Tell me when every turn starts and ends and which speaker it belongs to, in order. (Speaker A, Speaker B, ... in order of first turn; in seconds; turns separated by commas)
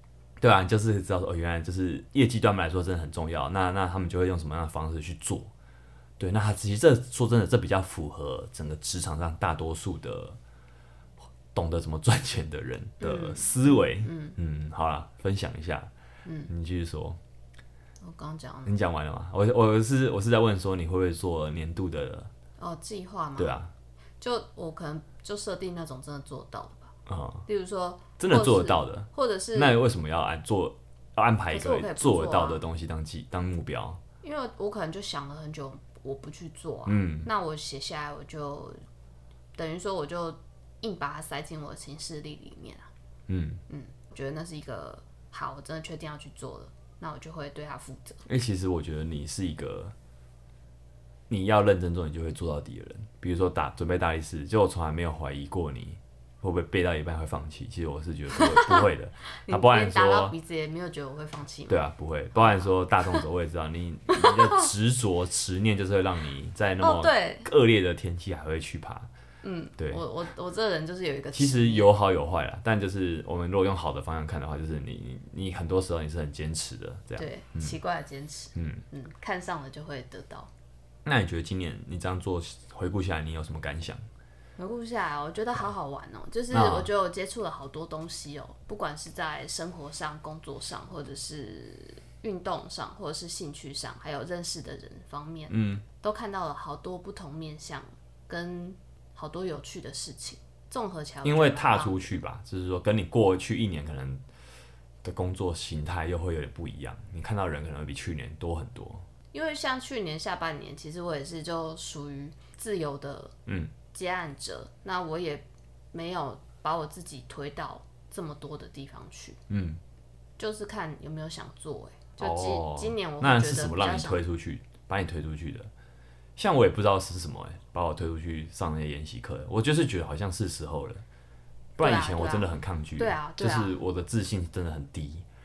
Speaker A: 0.4-5.5, Speaker A: 6.2-10.4, Speaker A: 11.5-15.9, Speaker B: 13.0-14.4, Speaker B: 16.2-16.5, Speaker A: 16.5-17.2, Speaker B: 18.0-18.8, Speaker A: 18.7-22.3, Speaker B: 22.6-23.6, Speaker A: 23.4-23.7, Speaker B: 24.2-26.9, Speaker A: 27.1-27.4, Speaker B: 27.5-29.8, Speaker A: 28.2-34.0, Speaker B: 31.5-32.6, Speaker B: 34.2-38.8, Speaker A: 36.9-37.3, Speaker B: 39.6-42.9, Speaker A: 43.3-43.6, Speaker B: 43.7-48.2, Speaker A: 48.3-49.9, Speaker A: 51.3-60.4, Speaker B: 58.3-61.8, Speaker A: 61.7-69.1, Speaker B: 62.3-63.2, Speaker B: 64.1-64.7, Speaker B: 66.8-67.5, Speaker B: 69.4-71.9, Speaker A: 69.8-70.0, Speaker A: 71.3-77.8, Speaker B: 77.2-80.5, Speaker A: 78.5-78.8, Speaker A: 81.0-84.0, Speaker B: 84.6-102.2, Speaker A: 86.5-86.9, Speaker A: 95.5-95.8, Speaker A: 101.2-104.2, Speaker A: 105.0-109.0, Speaker B: 109.3-113.3, Speaker A: 113.5-113.7, Speaker B: 113.9-119.4, Speaker A: 119.5-119.8, Speaker B: 120.4-124.2, Speaker A: 122.2-125.7, Speaker A: 126.4-131.0, Speaker A: 131.8-135.3, Speaker B: 131.8-133.8